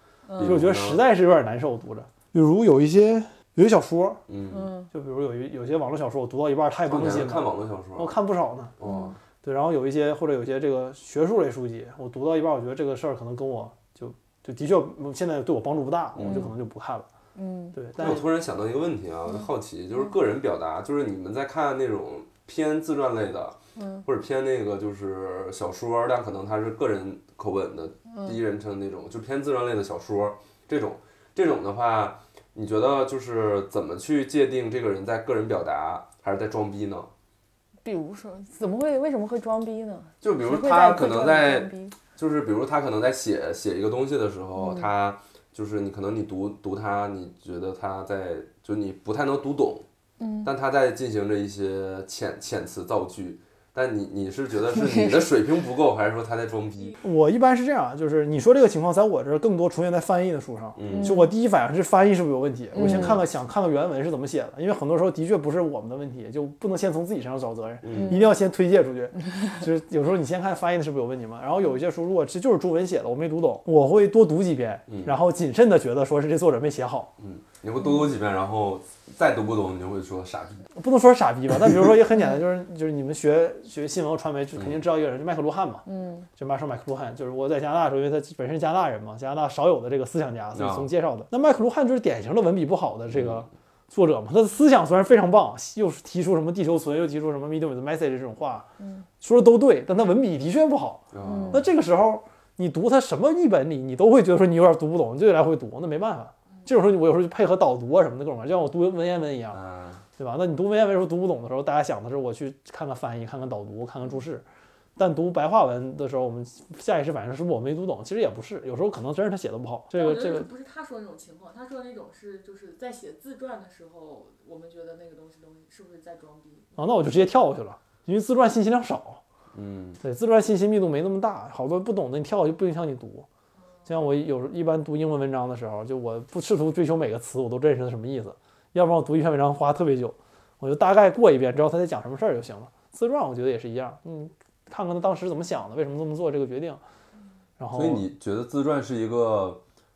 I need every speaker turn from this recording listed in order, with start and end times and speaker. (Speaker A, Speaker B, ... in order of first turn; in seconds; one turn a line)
Speaker A: 0.3-0.6
Speaker B: 0.4-1.0
Speaker C: 0.4-4.2
Speaker B: 4.3-4.7
Speaker A: 4.5-4.9
Speaker C: 4.9-8.7
Speaker B: 6.9-8.1
Speaker B: 8.8-9.2
Speaker A: 8.8-9.2
Speaker C: 9.4-17.1
Speaker B: 16.1-16.5
Speaker A: 16.2-16.5
Speaker A: 17.4-17.8
Speaker C: 17.8-18.3
Speaker B: 18.0-37.1
Speaker A: 23.8-24.1
Speaker A: 37.8-42.0
Speaker B: 40.2-49.9
Speaker A: 44.6-44.9
Speaker A: 50.2-50.5
Speaker B: 50.4-57.0
Speaker A: 54.7-55.3
Speaker C: 57.0-77.1
Speaker B: 60.8-61.2
Speaker A: 60.9-61.3
Speaker A: 62.7-63.2
Speaker B: 62.8-63.2
Speaker B: 67.8-68.2
Speaker A: 67.9-68.3
Speaker B: 74.9-75.2
Speaker B: 77.2-80.7
Speaker C: 80.8-85.8
Speaker B: 84.6-84.8
Speaker A: 85.9-86.3
Speaker C: 86.4-98.7
Speaker B: 90.5-90.9
Speaker B: 93.1-93.5
Speaker C: 99.2-109.6
Speaker B: 101.1-101.7
Speaker A: 101.2-101.7
Speaker B: 109.5-110.0
Speaker C: 110.2-114.4
Speaker C: 115.0-120.5
Speaker D: 119.9-126.8
Speaker C: 126.8-129.2
Speaker B: 129.5-130.0
Speaker C: 130.0-133.2
Speaker C: 133.9-146.8
Speaker C: 147.6-148.0
Speaker B: 147.7-149.6